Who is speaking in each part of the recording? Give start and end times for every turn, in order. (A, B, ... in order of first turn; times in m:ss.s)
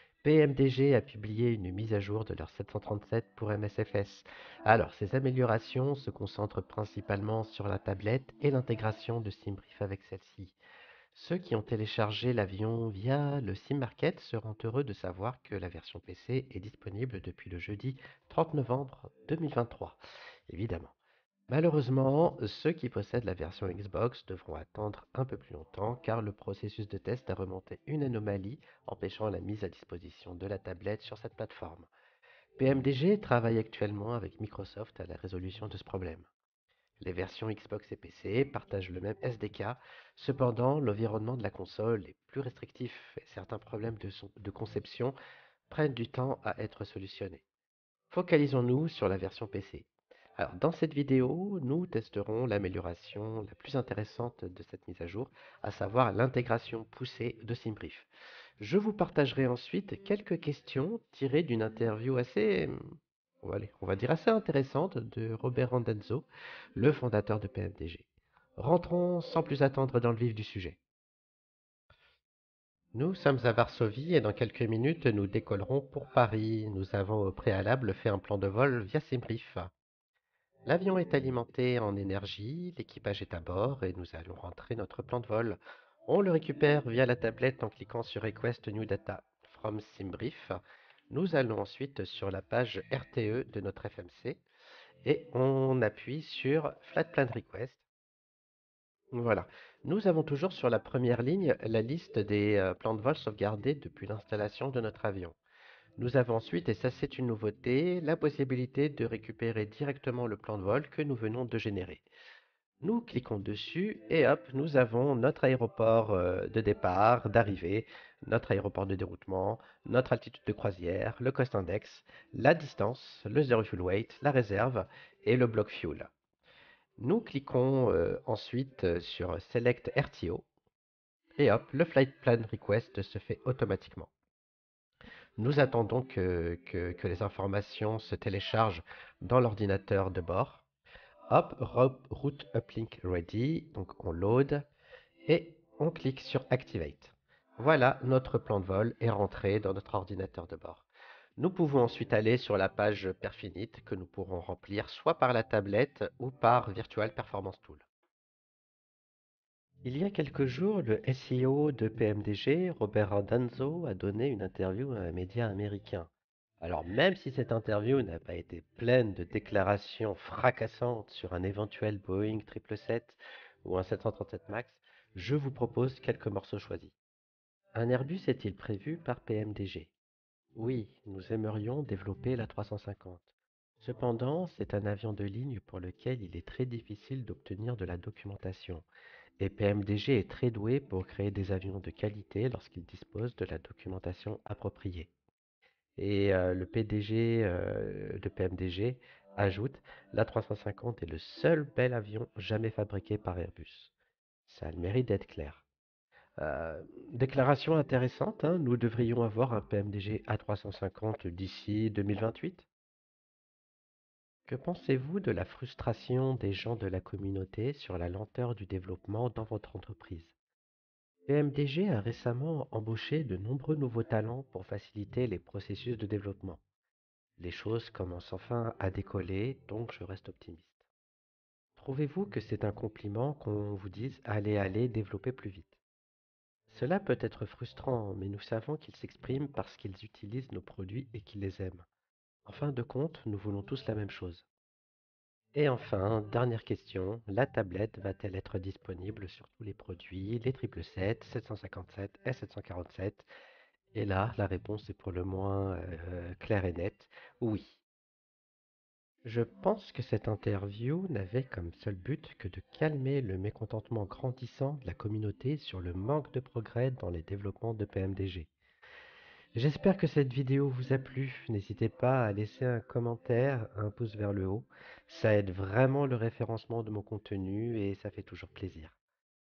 0:00.2-0:10.6 A
0:11.1-0:20.9 A
0:21.5-0:31.9 A
0:32.6-0:36.3 A
0:37.0-0:45.1 A
0:45.7-0:47.4 A
0:48.1-0:58.1 A
0:58.6-1:02.8 A
1:03.4-1:10.8 A
1:12.9-1:19.7 A
1:20.6-1:30.6 A
1:31.1-1:34.4 A
1:35.0-1:37.8 A
1:39.1-1:45.4 A
1:46.0-1:52.0 A
1:52.8-2:06.1 A
2:07.0-2:10.5 A
2:11.4-2:14.1 A
2:15.4-2:20.6 A
2:21.3-2:24.6 A
2:25.3-2:30.9 A
2:31.4-2:37.9 A
2:39.8-2:46.1 A
2:46.6-2:56.9 A
2:57.7-2:59.9 A
3:00.5-3:03.2 A
3:03.8-3:08.8 A
3:09.4-3:15.1 A
3:16.0-3:23.9 A
3:24.5-3:25.6 A
3:26.4-3:32.6 A
3:34.5-3:40.3 A
3:41.3-3:46.6 A
3:47.4-3:50.8 A
3:51.8-3:55.8 A
3:56.7-4:01.8 A
4:02.4-4:04.4 A
4:05.5-4:13.3 A
4:13.9-4:17.8 A
4:19.2-4:28.5 A
4:29.5-4:39.0 A